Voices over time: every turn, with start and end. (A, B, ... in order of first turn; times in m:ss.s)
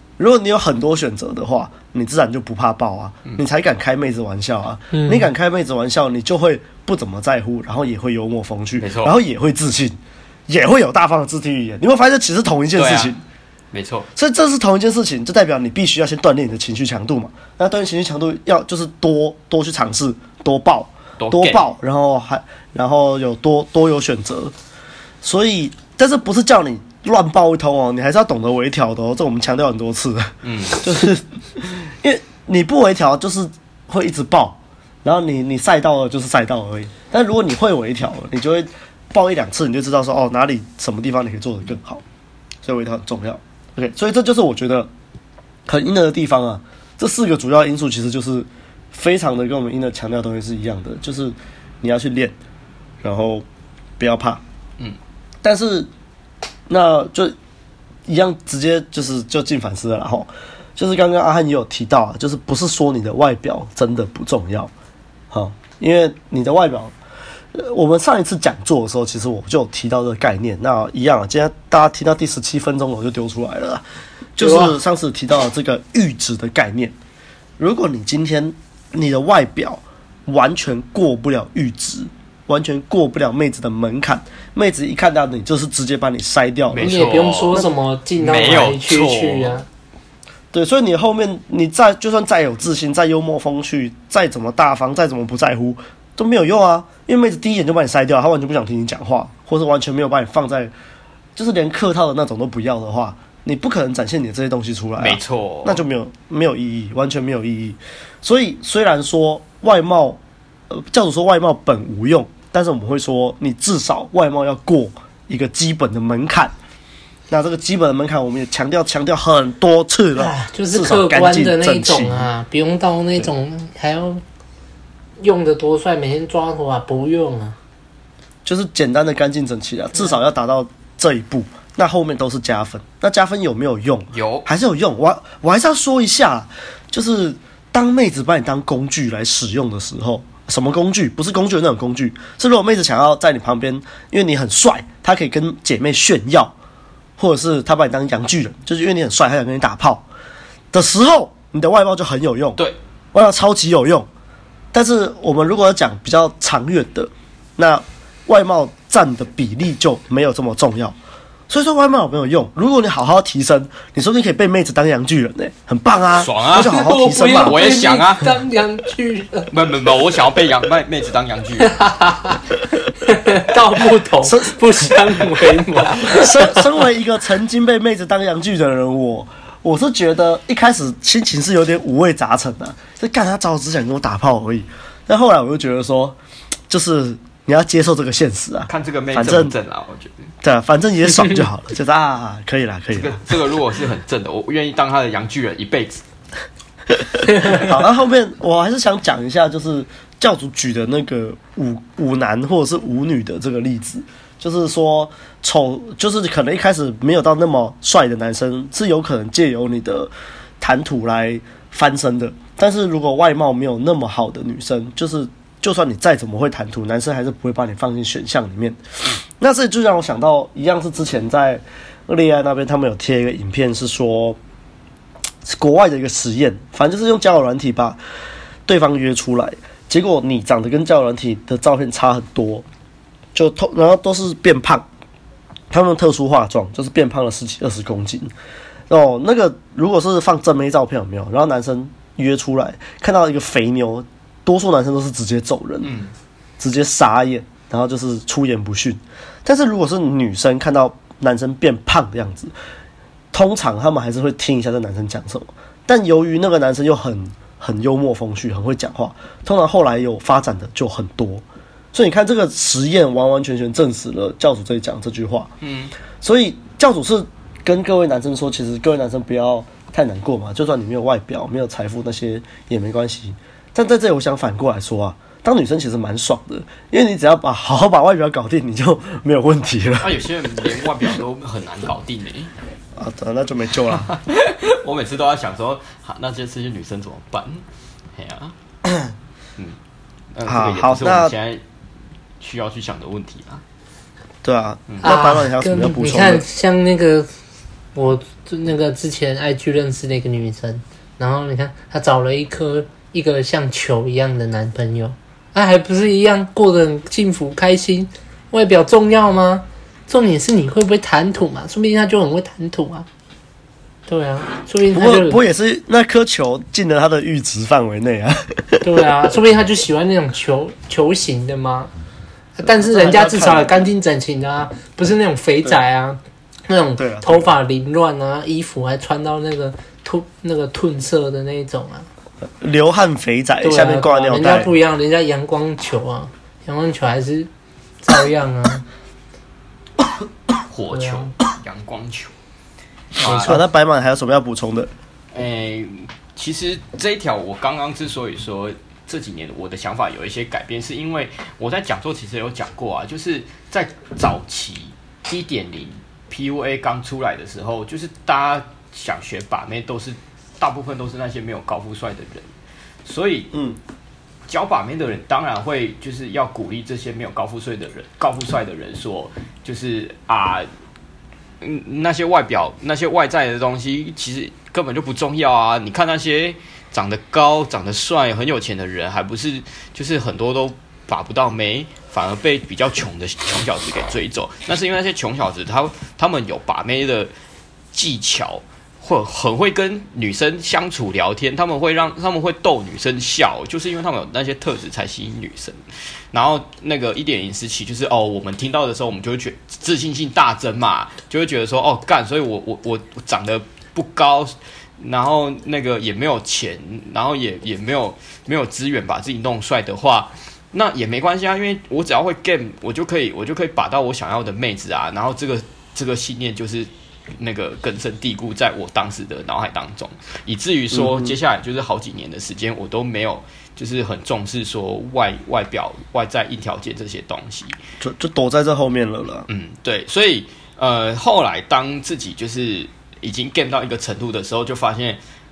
0:00.2-0:13.2 A
0:04.9-0:05.3 B
0:08.8-0:09.1 C
0:12.8-0:13.1 C
0:13.7-0:14.1 C
0:14.2-0:24.5 A
0:21.2-0:21.6 C
0:25.2-0:42.0 A
0:30.4-0:30.9 C
0:42.6-0:44.9 A
0:45.6-0:52.4 A
0:53.0-0:53.4 A
0:54.0-0:54.4 A
0:55.4-0:55.9 A
0:56.7-0:57.4 A
0:58.1-1:04.7 A
1:05.3-1:06.9 A
1:07.5-1:13.8 A
1:14.4-1:17.0 A
1:14.4-1:14.8 B
1:17.6-1:27.0 A
1:26.7-1:27.5 C
1:26.8-1:29.6 B
1:28.2-1:29.5 C
1:30.5-1:40.7 A
1:41.4-1:56.5 A
1:45.0-1:45.8 C
1:57.3-2:02.3 A
2:00.2-2:04.2 B
2:05.2-2:07.6 B
2:08.4-2:26.5 A
2:14.1-2:14.4 C
2:27.2-2:30.0 A
2:30.7-2:32.6 A
2:33.1-2:34.1 A
2:34.7-2:41.0 A
2:41.5-2:47.6 A
2:46.2-2:46.8 C
2:46.6-2:49.5 B
2:47.4-2:48.4 C
2:49.5-2:51.8 C
2:51.6-2:52.4 B
2:53.0-2:56.6 B
2:54.2-2:55.0 A
2:55.9-3:06.2 A
3:06.7-3:09.5 A
3:08.7-3:10.3 C
3:10.4-3:13.2 A
3:12.9-3:16.0 C
3:17.4-3:44.4 A
3:45.4-3:48.0 A
3:48.6-3:52.6 A
3:53.3-3:54.9 A
3:55.7-3:58.3 A
3:58.9-4:05.9 A
4:05.8-4:06.1 C
4:06.6-4:12.5 A
4:13.3-4:25.5 A
4:25.6-4:25.9 C
4:26.2-4:40.2 A
4:40.0-4:42.5 C
4:43.0-4:44.1 A
4:43.9-4:47.6 C
4:48.2-4:48.5 C
4:48.8-4:49.1 A
4:50.3-4:51.6 C
4:50.4-4:51.3 A
4:52.4-4:53.6 C
4:54.4-4:56.4 A
4:55.0-4:57.3 B
4:57.9-5:13.1 B
5:14.1-5:15.4 B
5:14.9-5:18.8 A
5:18.8-5:21.9 B
5:22.6-5:23.8 A
5:22.6-5:32.1 B
5:27.0-5:27.5 A
5:32.6-5:34.7 A
5:33.6-5:37.5 B
5:38.0-5:38.8 B
5:40.7-5:42.3 C
5:40.9-5:41.3 B
5:43.2-5:43.6 C
5:43.2-5:44.9 A
5:43.2-5:43.6 B
5:45.3-6:02.5 C
6:03.0-6:03.5 C
6:03.5-6:03.8 A
6:04.5-6:10.7 C
6:11.6-6:27.3 C
6:27.9-6:35.8 C
6:36.3-7:07.8 C
7:00.9-7:01.4 A
7:08.0-7:09.4 A
7:09.5-7:15.2 C